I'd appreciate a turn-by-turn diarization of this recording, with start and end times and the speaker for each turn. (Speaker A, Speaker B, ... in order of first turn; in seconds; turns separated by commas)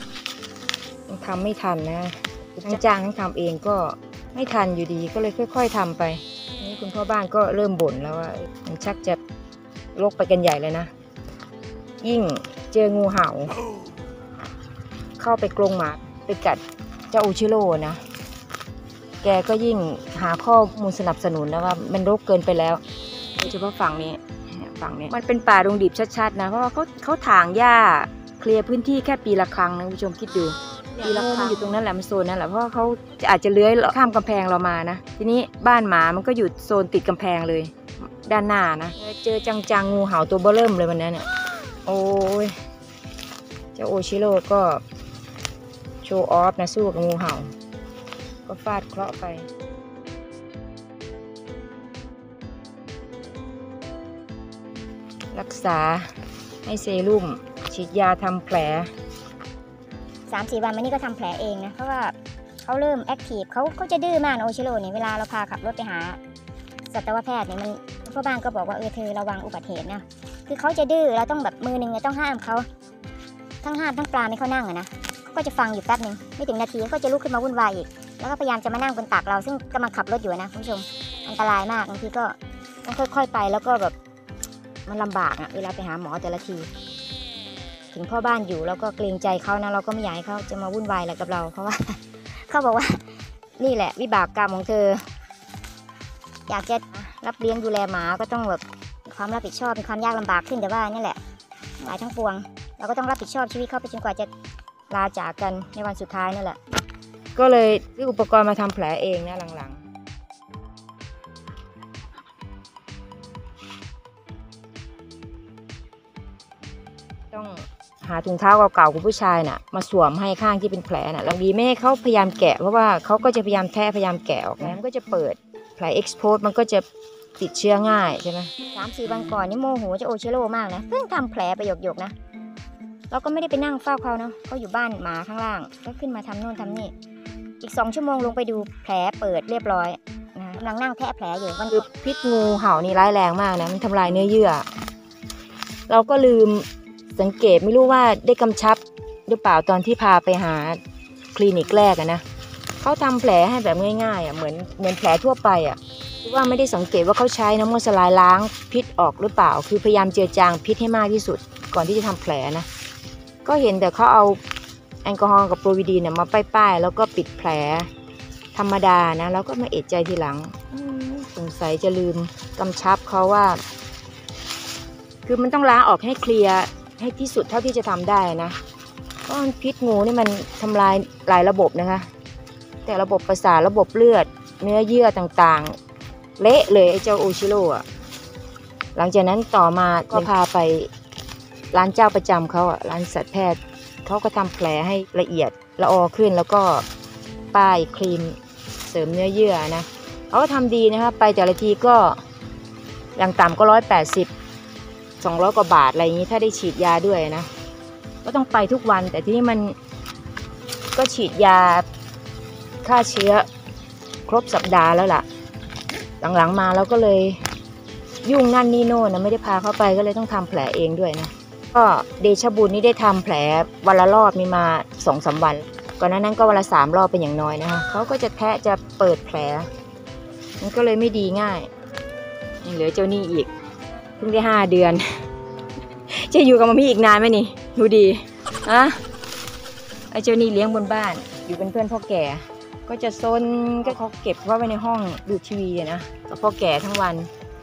Speaker A: 1.1-9.2, Speaker A: 9.9-10.9, Speaker A: 12.0-13.6, Speaker A: 15.2-18.0, Speaker A: 19.2-22.8, Speaker A: 23.4-41.3, Speaker B: 31.0-31.5, Speaker A: 41.8-42.5, Speaker A: 43.8-44.8, Speaker A: 46.0-47.5, Speaker A: 48.5-49.5, Speaker A: 55.3-56.1, Speaker A: 56.6-58.9, Speaker B: 60.3-66.2, Speaker B: 66.8-72.7, Speaker B: 73.6-83.9, Speaker B: 84.8-86.7, Speaker B: 87.9-95.1, Speaker B: 96.5-101.2, Speaker B: 101.8-104.3, Speaker B: 104.9-106.6, Speaker A: 107.3-109.8, Speaker A: 117.3-126.8, Speaker A: 127.4-128.5, Speaker B: 128.7-132.1, Speaker A: 133.1-134.5, Speaker B: 134.5-135.3, Speaker A: 135.3-136.5, Speaker B: 136.2-136.9, Speaker B: 137.6-140.0, Speaker B: 140.5-141.8, Speaker A: 141.7-144.7, Speaker A: 145.9-150.8, Speaker A: 151.3-152.2, Speaker A: 152.8-162.7, Speaker A: 163.4-164.4, Speaker A: 165.0-167.9, Speaker A: 168.5-173.6, Speaker A: 175.3-178.6, Speaker A: 179.3-182.1, Speaker A: 182.8-185.8, Speaker A: 186.4-187.8, Speaker A: 189.0-190.9, Speaker A: 191.7-196.8, Speaker A: 197.5-202.2, Speaker A: 203.2-204.3, Speaker A: 205.2-207.5, Speaker A: 208.2-209.8, Speaker A: 210.9-211.8, Speaker A: 212.8-213.5, Speaker A: 214.3-215.2, Speaker A: 216.2-217.4, Speaker A: 218.2-229.7, Speaker A: 230.6-231.7, Speaker A: 232.6-233.5, Speaker A: 234.2-235.0, Speaker A: 236.1-239.0, Speaker A: 240.1-247.3